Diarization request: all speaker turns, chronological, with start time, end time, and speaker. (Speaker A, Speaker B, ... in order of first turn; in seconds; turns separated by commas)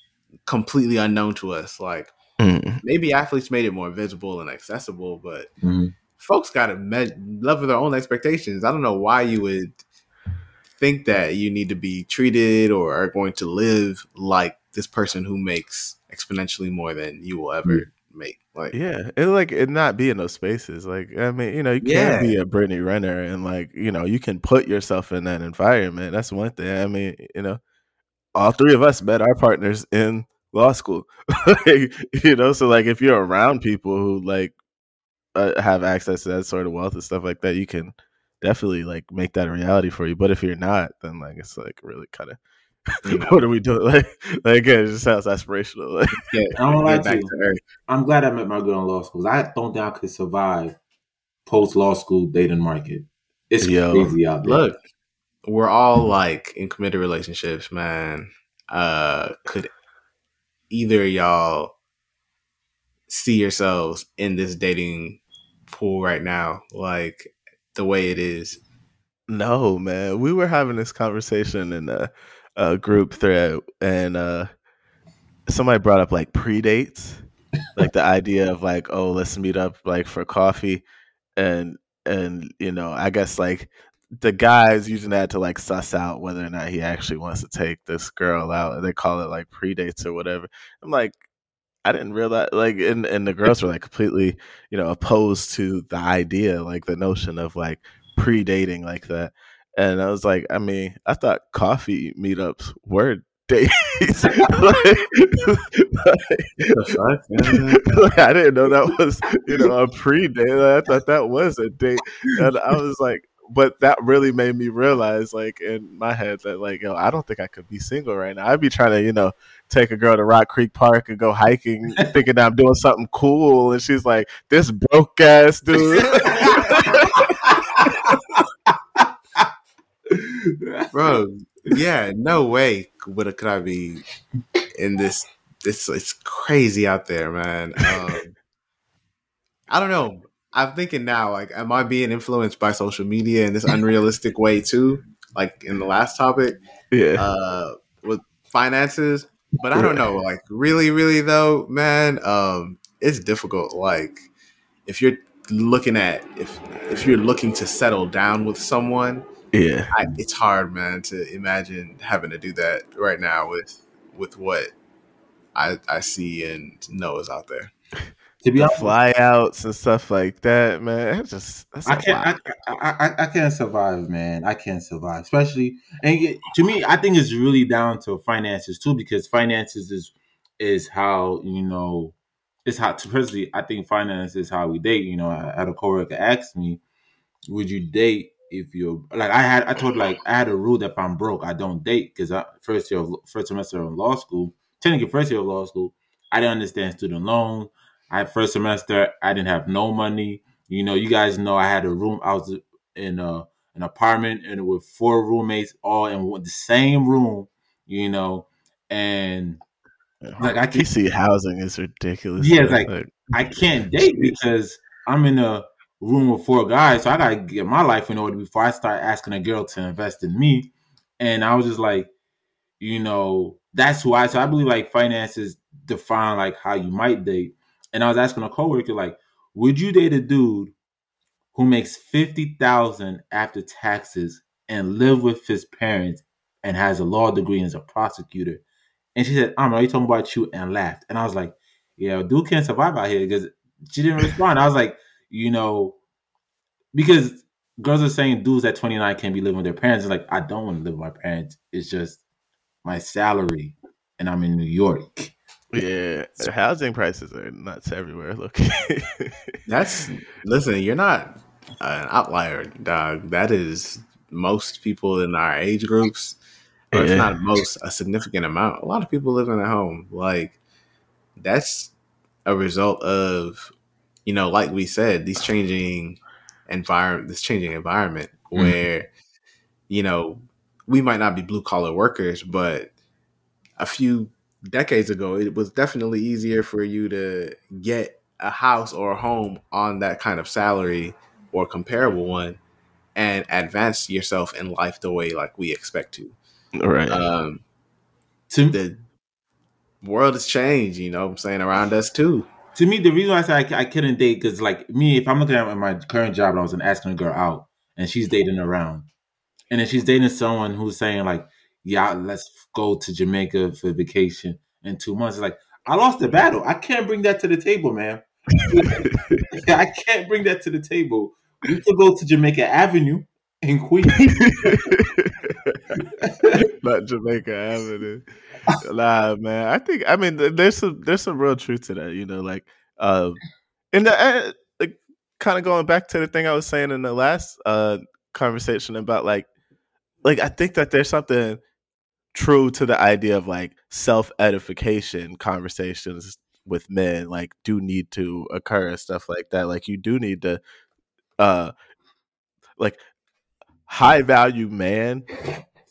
Speaker A: 0.5-2.1, Speaker B: 2.4-2.8, Speaker A: 2.8-5.5, Speaker C: 5.6-5.9, Speaker A: 6.2-9.8, Speaker A: 10.8-18.8, Speaker B: 18.7-27.6, Speaker A: 21.8-22.3, Speaker B: 28.4-34.5, Speaker B: 35.4-46.2, Speaker A: 43.0-43.4, Speaker A: 46.1-47.6, Speaker C: 46.6-47.3, Speaker C: 47.9-50.8, Speaker C: 51.5-54.6, Speaker B: 53.6-54.1, Speaker A: 54.4-54.8, Speaker A: 55.5-59.7, Speaker A: 60.7-61.8, Speaker A: 63.1-68.6, Speaker B: 69.3-74.5, Speaker B: 75.5-77.2, Speaker B: 77.8-80.8, Speaker B: 81.4-91.2, Speaker B: 91.8-106.8, Speaker A: 106.6-108.0, Speaker B: 107.5-127.2, Speaker C: 126.0-128.4, Speaker C: 129.0-129.4, Speaker C: 130.1-130.9, Speaker A: 130.9-134.0, Speaker A: 134.8-138.3, Speaker A: 139.7-146.6, Speaker B: 146.9-147.3, Speaker A: 147.2-154.2, Speaker B: 149.8-150.0, Speaker A: 154.9-159.3, Speaker B: 159.5-159.9, Speaker A: 159.9-164.7, Speaker A: 165.6-167.7, Speaker C: 168.4-168.9, Speaker B: 168.6-172.3, Speaker C: 171.9-186.8, Speaker C: 187.5-209.6, Speaker B: 210.2-213.3, Speaker C: 210.4-210.9, Speaker C: 212.4-222.1, Speaker C: 222.8-230.7, Speaker C: 231.5-238.6, Speaker C: 239.2-246.0, Speaker C: 246.9-252.2, Speaker C: 252.8-255.4, Speaker B: 255.7-259.6, Speaker A: 259.7-266.4, Speaker A: 266.9-270.6, Speaker B: 266.9-267.3, Speaker A: 271.4-271.9, Speaker A: 272.4-273.7, Speaker A: 274.3-279.1, Speaker A: 279.9-282.9, Speaker A: 283.8-292.6, Speaker A: 293.1-296.4, Speaker B: 296.8-297.3, Speaker A: 297.1-297.6, Speaker C: 298.5-298.8, Speaker A: 298.7-299.0, Speaker A: 300.0-302.5, Speaker C: 302.8-309.1, Speaker C: 309.7-324.8, Speaker B: 319.1-319.4, Speaker B: 324.2-325.8, Speaker C: 326.0-326.6, Speaker B: 326.7-328.2, Speaker B: 328.8-333.4, Speaker B: 333.9-339.5, Speaker B: 340.2-341.6, Speaker B: 342.3-350.6, Speaker B: 351.4-351.7, Speaker B: 353.9-355.3